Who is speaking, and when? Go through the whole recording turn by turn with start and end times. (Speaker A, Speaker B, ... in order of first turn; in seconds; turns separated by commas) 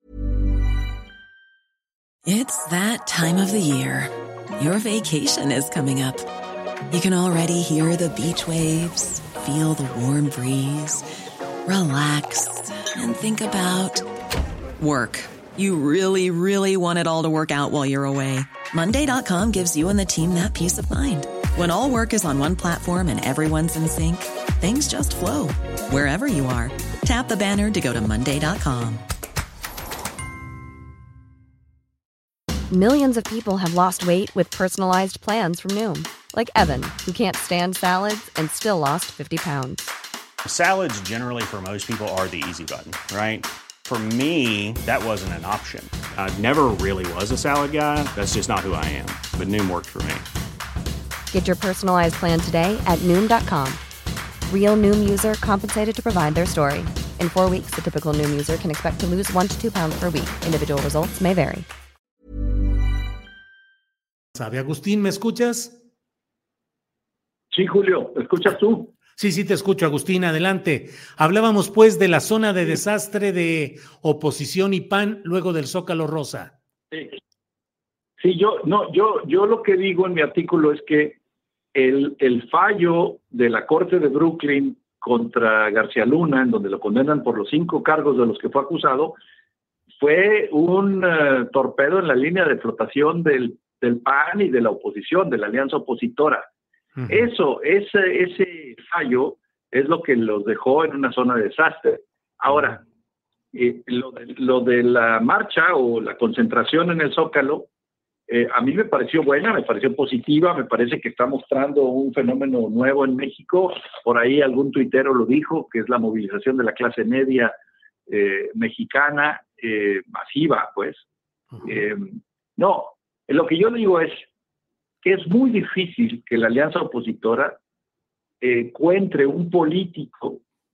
Speaker A: 2.2-6.2, Speaker A: 6.9-11.0, Speaker A: 11.7-14.0, Speaker A: 14.8-29.0, Speaker B: 32.7-39.9, Speaker C: 40.5-43.4, Speaker C: 43.9-46.5, Speaker C: 47.2-49.8, Speaker B: 51.3-53.8, Speaker B: 54.5-61.7, Speaker D: 64.3-65.8, Speaker E: 67.5-68.9, Speaker D: 69.2-76.5, Speaker E: 78.2-81.2, Speaker E: 81.7-89.2, Speaker E: 90.0-96.5, Speaker E: 97.1-102.8, Speaker E: 103.5-107.7, Speaker E: 108.3-117.5, Speaker E: 118.1-121.0, Speaker E: 121.6-124.2, Speaker E: 125.0-127.6, Speaker E: 128.4-130.4